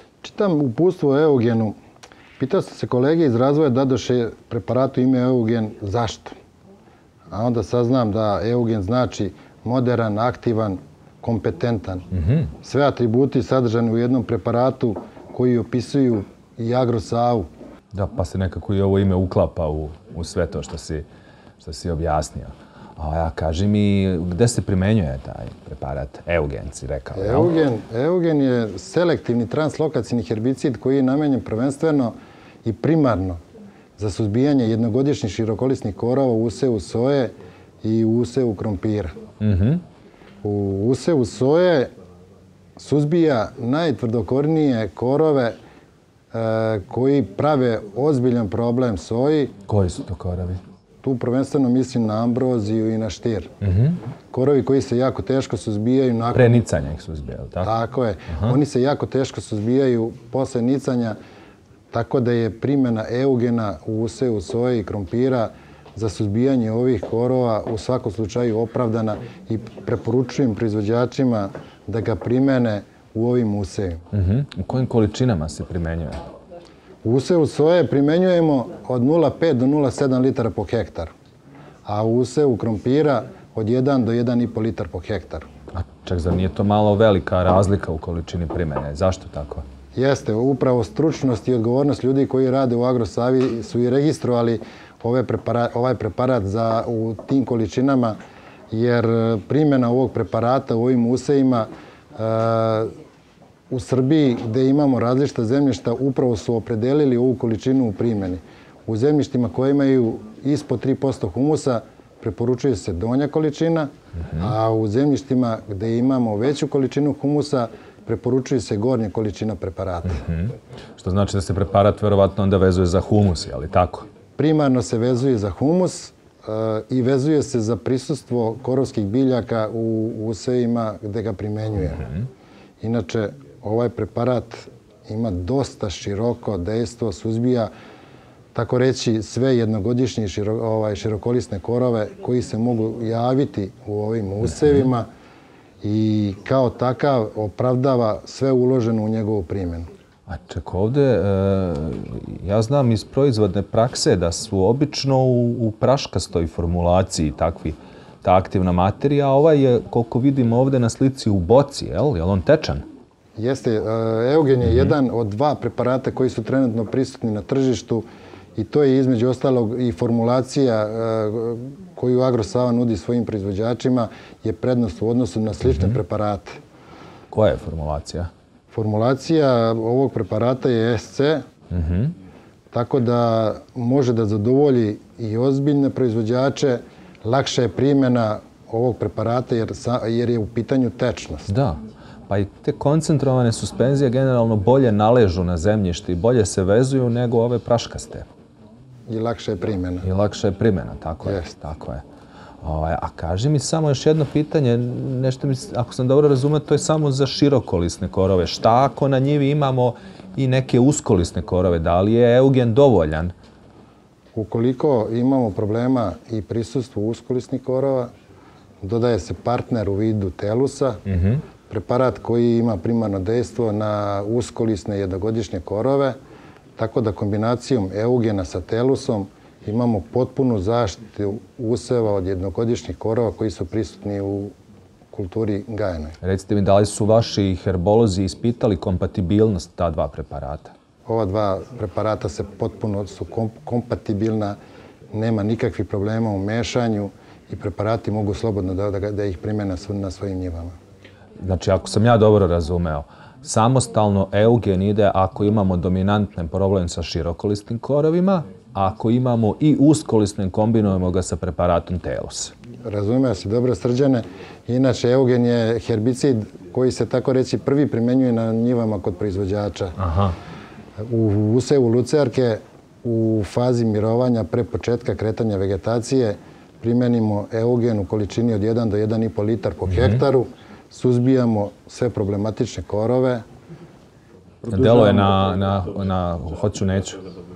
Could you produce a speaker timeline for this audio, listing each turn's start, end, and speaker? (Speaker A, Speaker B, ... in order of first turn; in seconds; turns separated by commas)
Speaker A: 0.2-1.8, Speaker A: 2.4-6.3, Speaker A: 7.3-12.1, Speaker B: 12.1-12.5, Speaker A: 12.6-17.5, Speaker B: 17.9-21.1, Speaker B: 21.6-27.5, Speaker A: 27.1-33.4, Speaker A: 34.0-39.1, Speaker B: 39.4-39.8, Speaker A: 40.4-41.9, Speaker A: 42.8-45.5, Speaker A: 46.3-49.5, Speaker B: 49.7-50.6, Speaker A: 51.0-53.5, Speaker B: 53.6-54.0, Speaker A: 54.3-56.6, Speaker B: 56.3-57.7, Speaker A: 57.6-61.1, Speaker B: 58.3-58.6, Speaker A: 61.9-74.0, Speaker B: 74.1-76.3, Speaker A: 77.0-81.1, Speaker A: 81.8-85.4, Speaker B: 85.7-89.7, Speaker A: 89.9-98.2, Speaker A: 98.7-102.9, Speaker A: 103.7-120.2, Speaker B: 120.2-124.0, Speaker A: 124.4-132.1, Speaker A: 132.8-137.7, Speaker A: 138.5-145.1, Speaker B: 144.5-144.9, Speaker A: 145.8-149.9, Speaker B: 150.3-162.8, Speaker A: 163.4-168.0, Speaker A: 168.6-176.6, Speaker B: 177.3-178.3, Speaker A: 178.7-181.4, Speaker B: 181.7-182.2, Speaker A: 182.7-191.5, Speaker B: 191.5-198.2, Speaker A: 199.1-200.1, Speaker B: 200.0-202.0, Speaker A: 201.2-201.5, Speaker B: 202.6-213.3, Speaker A: 214.3-218.1, Speaker A: 218.8-221.0, Speaker B: 221.0-221.4, Speaker A: 221.7-226.1, Speaker A: 226.8-234.5, Speaker A: 235.1-236.2, Speaker B: 236.2-240.7, Speaker A: 241.1-244.6, Speaker A: 245.1-250.7, Speaker B: 251.4-262.5, Speaker A: 262.9-269.9, Speaker B: 270.0-270.4, Speaker A: 271.0-283.4, Speaker B: 279.9-280.2, Speaker B: 284.6-287.2